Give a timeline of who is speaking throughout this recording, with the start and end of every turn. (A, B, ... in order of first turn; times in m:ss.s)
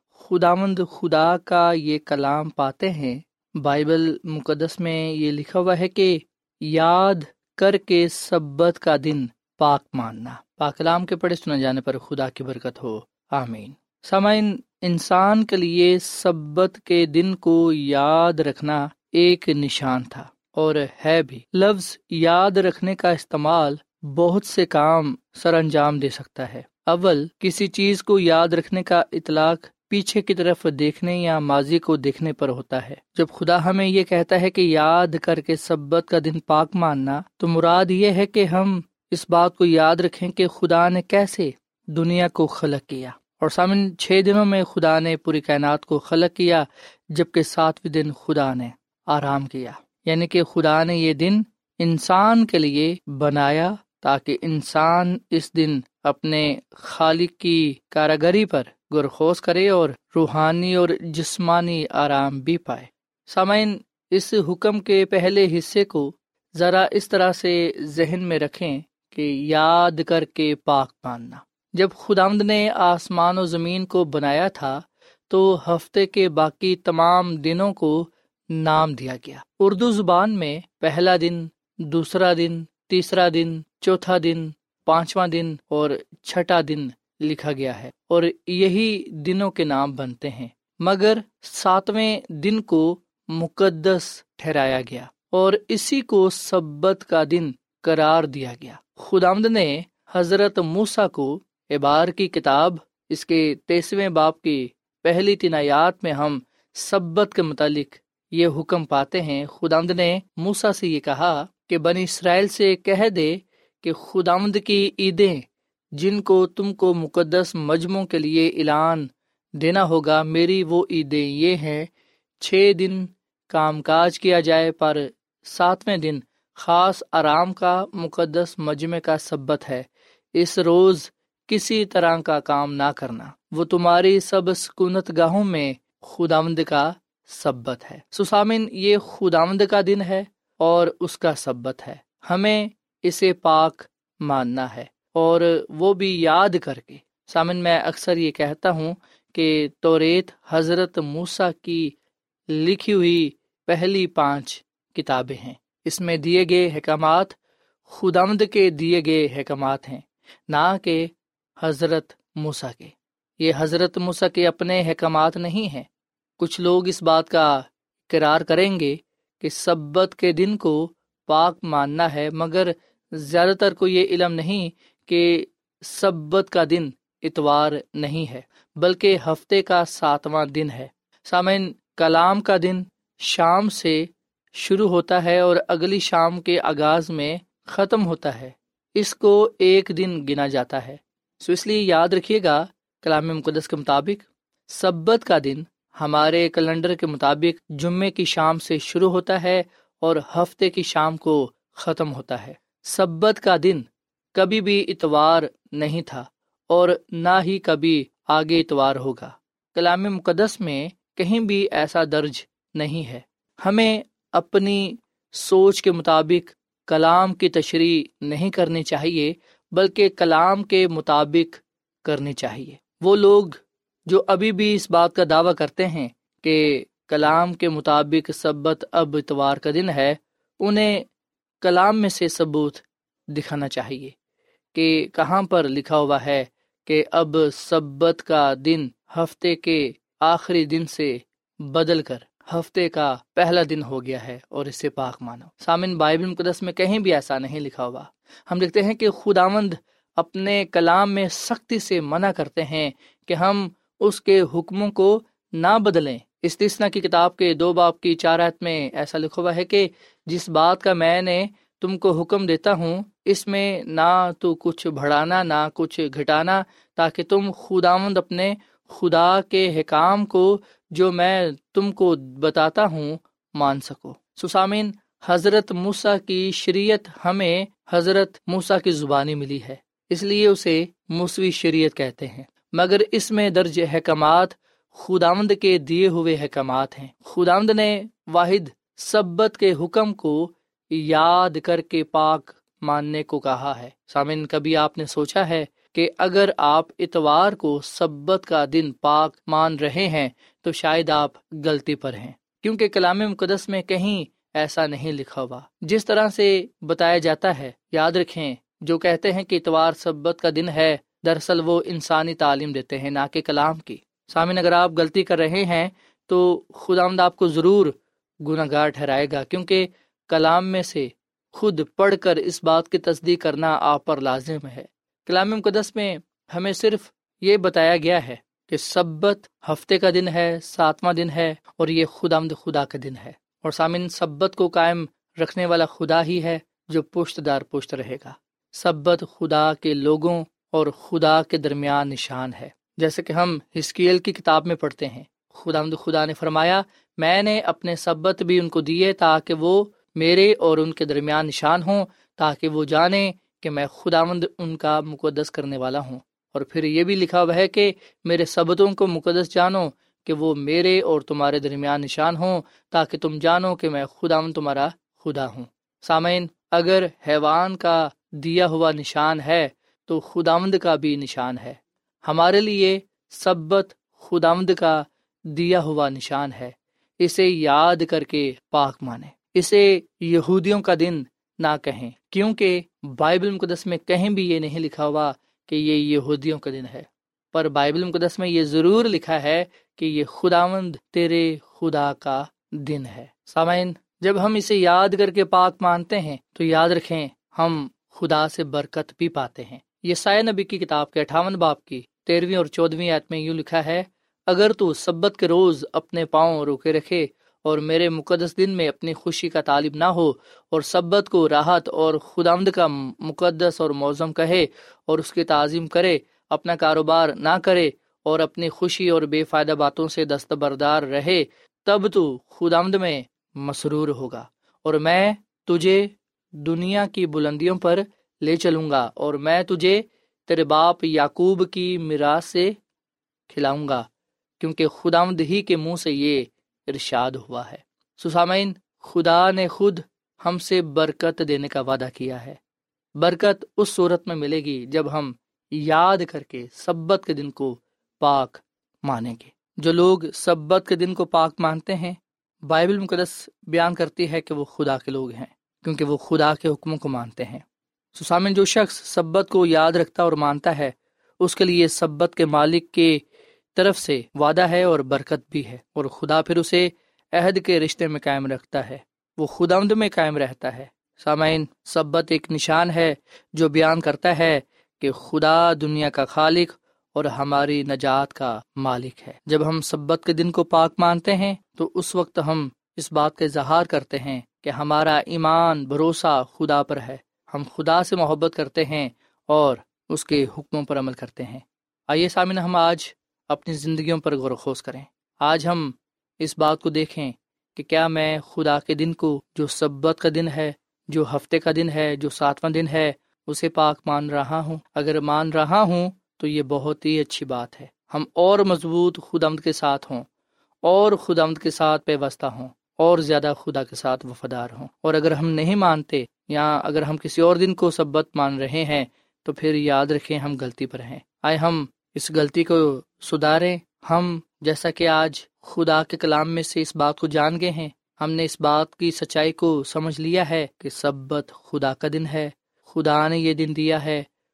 0:00.2-1:55.4 A
1:56.0-1:59.1 A
1:59.6-2:01.9 A
2:02.4-2:31.9 A
2:32.5-2:37.4 A
2:37.9-2:45.9 A
2:46.4-3:51.0 A
3:51.6-3:54.1 A
3:54.7-7:12.8 A
7:13.5-7:14.1 A
7:14.6-7:22.6 A
7:23.2-7:37.6 A
7:38.1-7:43.2 A
7:43.7-8:30.3 A
8:30.8-8:54.3 A